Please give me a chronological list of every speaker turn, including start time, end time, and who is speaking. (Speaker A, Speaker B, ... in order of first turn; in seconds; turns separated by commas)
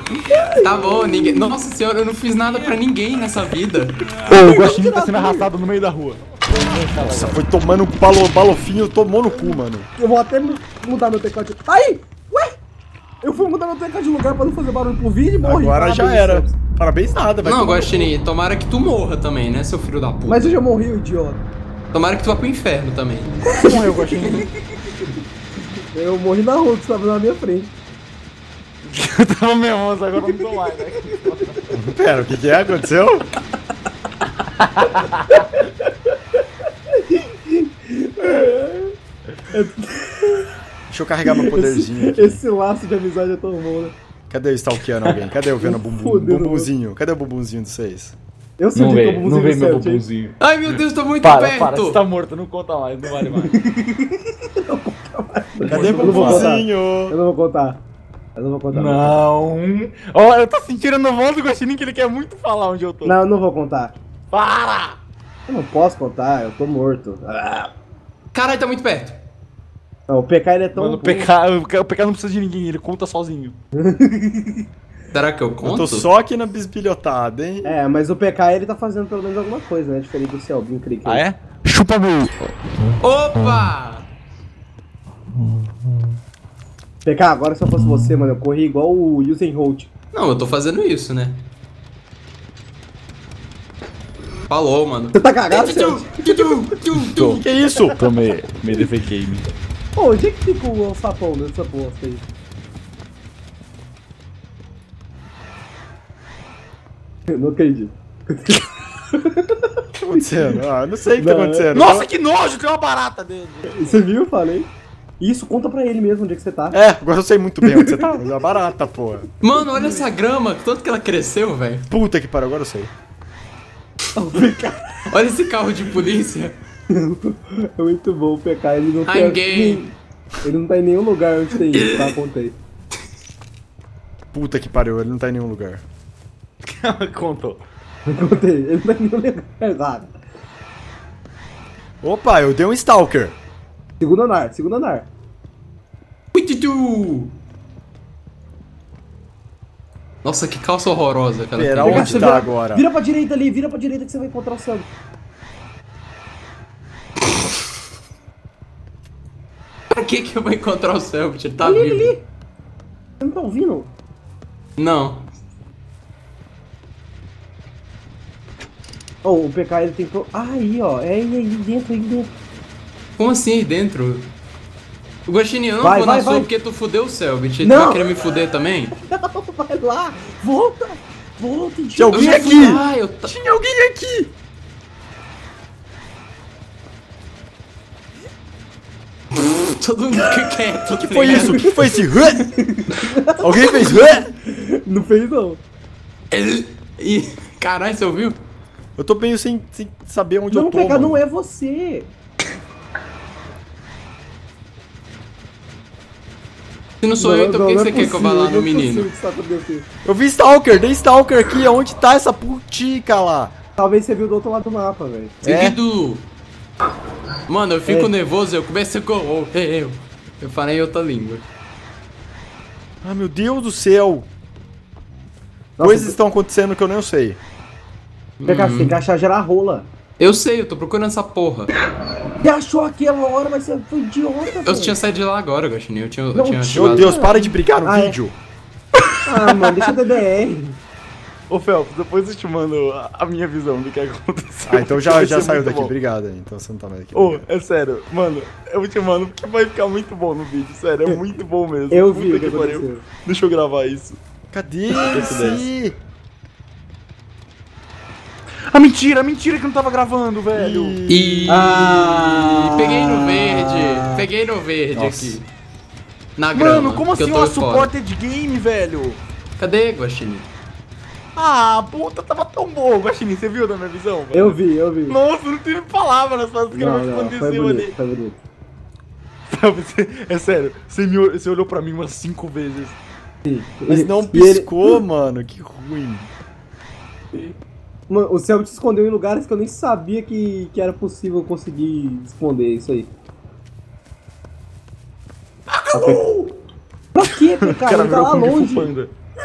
Speaker A: 0.3-1.5, Speaker B: 0.6-4.1, Speaker C: 4.2-7.4, Speaker A: 4.3-5.5, Speaker D: 7.0-9.9, Speaker A: 10.0-12.6, Speaker A: 13.2-16.5, Speaker D: 15.4-18.1, Speaker B: 17.4-20.6, Speaker A: 20.3-21.4, Speaker B: 21.9-23.7, Speaker C: 23.5-24.5, Speaker A: 23.7-24.1, Speaker A: 25.9-27.7, Speaker C: 28.8-31.6, Speaker D: 31.7-33.3, Speaker C: 34.6-35.2, Speaker A: 35.3-35.9, Speaker A: 36.9-38.9, Speaker A: 39.5-40.5, Speaker D: 40.9-42.4, Speaker A: 41.2-43.9, Speaker D: 44.3-48.1, Speaker A: 45.6-46.7, Speaker A: 48.6-50.1, Speaker C: 48.8-50.4, Speaker B: 50.4-52.0, Speaker C: 51.2-53.5, Speaker A: 53.2-57.8, Speaker D: 55.7-57.1, Speaker C: 55.7-56.5, Speaker A: 58.3-59.2, Speaker C: 58.7-63.2, Speaker A: 63.0-63.9, Speaker C: 64.3-65.0, Speaker A: 65.5-67.7, Speaker B: 68.3-69.2, Speaker A: 70.1-71.3, Speaker C: 70.7-73.5, Speaker A: 73.8-74.6, Speaker B: 75.1-76.1, Speaker D: 75.6-77.7, Speaker A: 77.6-81.2, Speaker C: 81.0-82.5, Speaker B: 83.0-84.1, Speaker A: 87.0-89.9, Speaker B: 90.1-91.4, Speaker B: 94.5-97.4, Speaker A: 95.1-96.5, Speaker C: 97.0-99.5, Speaker D: 97.2-98.0, Speaker A: 99.9-102.2, Speaker A: 107.3-110.2, Speaker D: 110.0-112.1, Speaker A: 111.2-111.7, Speaker C: 111.7-114.0, Speaker A: 113.7-114.7, Speaker A: 115.2-116.8, Speaker D: 116.7-119.3, Speaker A: 117.7-118.2, Speaker B: 119.4-121.8, Speaker D: 121.9-122.9, Speaker A: 124.2-125.0, Speaker B: 125.1-126.5, Speaker A: 126.9-132.6, Speaker B: 129.1-129.8, Speaker B: 131.7-132.2, Speaker D: 134.3-135.8, Speaker C: 136.7-137.6, Speaker A: 138.1-140.1, Speaker D: 142.0-143.3, Speaker A: 144.0-145.1, Speaker B: 146.3-147.3, Speaker B: 150.2-152.3, Speaker D: 151.5-152.8, Speaker A: 151.8-154.9, Speaker B: 159.9-162.2, Speaker A: 161.6-162.2, Speaker A: 163.2-163.9, Speaker B: 164.8-165.3, Speaker A: 169.2-172.3, Speaker B: 173.2-174.3, Speaker B: 175.2-178.9, Speaker A: 175.8-176.5, Speaker A: 177.6-178.1, Speaker A: 179.1-182.8, Speaker D: 181.9-184.3, Speaker B: 182.1-183.3, Speaker B: 189.4-192.5, Speaker D: 191.0-192.5, Speaker A: 192.6-195.6, Speaker D: 193.4-194.3, Speaker B: 196.3-198.4, Speaker D: 199.0-201.2, Speaker A: 200.5-202.1, Speaker B: 207.0-209.1, Speaker A: 207.2-209.8, Speaker D: 210.0-213.5, Speaker A: 213.8-215.4, Speaker B: 215.4-216.2, Speaker D: 215.4-215.8, Speaker B: 217.5-221.4, Speaker D: 223.0-224.2, Speaker A: 225.8-226.2, Speaker D: 225.8-227.4, Speaker B: 228.4-229.0, Speaker A: 228.5-229.9, Speaker B: 230.2-231.7, Speaker A: 232.4-235.0, Speaker B: 234.5-237.1, Speaker A: 236.3-238.2, Speaker D: 236.7-238.3, Speaker C: 239.0-239.8, Speaker A: 239.2-240.8, Speaker C: 241.5-245.9, Speaker D: 244.7-247.4, Speaker C: 247.1-254.2, Speaker A: 251.9-253.0, Speaker D: 254.5-255.9, Speaker C: 255.0-255.6, Speaker C: 258.7-261.0, Speaker D: 260.5-261.5, Speaker B: 261.1-262.1, Speaker A: 261.5-264.2, Speaker B: 262.6-265.4, Speaker C: 264.9-265.4, Speaker B: 266.4-267.9, Speaker C: 266.5-269.2, Speaker B: 269.6-270.5, Speaker C: 271.4-274.6, Speaker A: 274.3-275.2, Speaker C: 275.1-277.9, Speaker A: 276.7-278.4, Speaker C: 279.5-282.9, Speaker A: 283.4-285.0, Speaker D: 283.9-286.3, Speaker A: 288.1-293.1, Speaker B: 295.8-296.4, Speaker A: 295.9-296.2, Speaker A: 297.1-298.9, Speaker C: 297.6-299.1